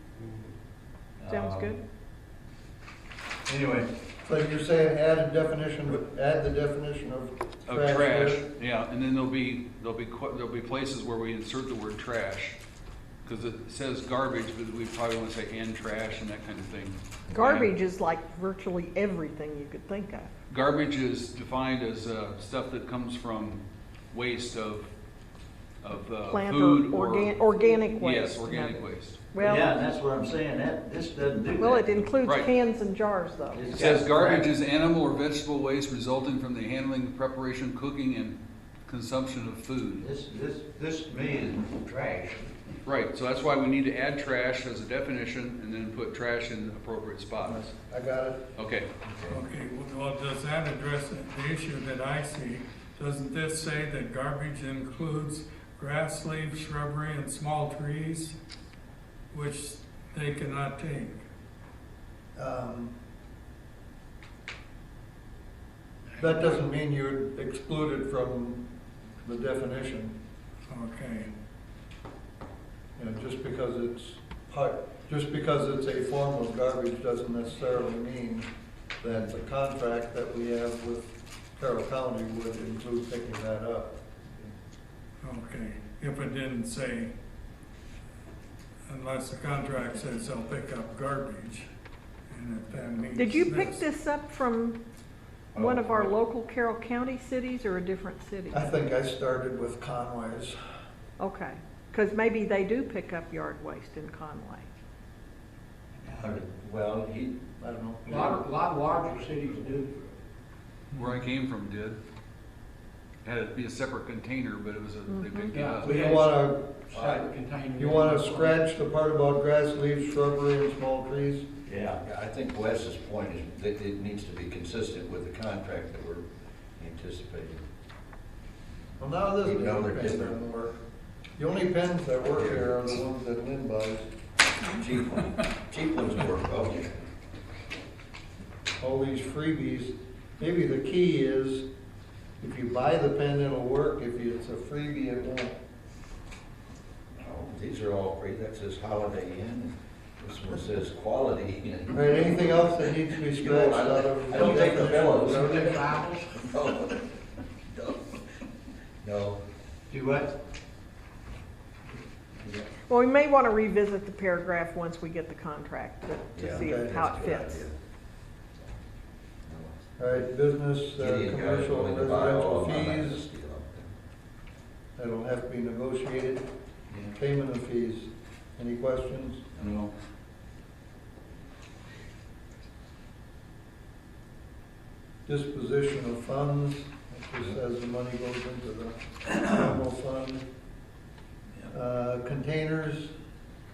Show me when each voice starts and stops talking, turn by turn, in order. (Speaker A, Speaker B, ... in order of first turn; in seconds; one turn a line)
Speaker A: 1.2-1.7
Speaker B: 1.3-1.8
Speaker A: 3.5-3.9
Speaker C: 4.2-8.4
Speaker D: 7.7-12.6
Speaker D: 13.2-17.7
Speaker B: 17.3-20.3
Speaker D: 20.5-24.9
Speaker D: 25.8-29.3
Speaker B: 26.3-29.7
Speaker A: 29.4-32.1
Speaker B: 31.6-33.7
Speaker D: 32.2-32.5
Speaker A: 33.5-34.5
Speaker D: 33.8-40.0
Speaker A: 40.0-42.5
Speaker D: 42.8-47.7
Speaker C: 47.4-48.4
Speaker D: 48.5-48.9
Speaker E: 49.3-58.3
Speaker E: 59.3-61.2
Speaker C: 62.4-62.9
Speaker C: 66.2-68.6
Speaker C: 69.2-70.1
Speaker E: 70.7-71.3
Speaker C: 73.0-78.5
Speaker C: 79.0-84.0
Speaker E: 85.2-87.1
Speaker E: 88.9-91.7
Speaker E: 92.3-93.8
Speaker B: 93.2-94.8
Speaker B: 95.5-98.7
Speaker C: 98.5-100.6
Speaker B: 101.2-104.7
Speaker A: 106.1-106.3
Speaker F: 106.2-107.3
Speaker C: 107.6-108.4
Speaker G: 108.1-110.0
Speaker D: 110.9-112.0
Speaker D: 113.2-116.0
Speaker B: 115.1-115.6
Speaker G: 115.5-116.3
Speaker C: 115.8-116.7
Speaker G: 116.9-118.6
Speaker F: 116.9-117.3
Speaker C: 117.8-121.4
Speaker A: 121.6-122.0
Speaker F: 122.0-126.2
Speaker F: 126.8-127.6
Speaker C: 129.0-130.8
Speaker F: 129.4-130.6
Speaker C: 131.4-134.1
Speaker F: 132.4-132.6
Speaker F: 134.7-136.9
Speaker C: 138.8-141.7
Speaker C: 142.4-145.5
Speaker F: 147.2-152.6
Speaker C: 151.9-155.6
Speaker F: 153.3-157.0
Speaker A: 154.3-154.7
Speaker G: 154.7-156.4
Speaker F: 157.7-158.2
Speaker F: 159.0-159.4
Speaker A: 159.9-160.3
Speaker A: 162.4-162.7
Speaker B: 162.9-167.7
Speaker F: 166.3-167.7
Speaker C: 166.5-167.0
Speaker F: 169.5-169.8
Speaker C: 170.0-173.2
Speaker F: 171.0-173.9
Speaker C: 174.9-176.4
Speaker A: 176.9-177.1
Speaker C: 177.1-179.4
Speaker A: 179.6-179.9
Speaker C: 185.2-190.4
Speaker C: 191.7-193.1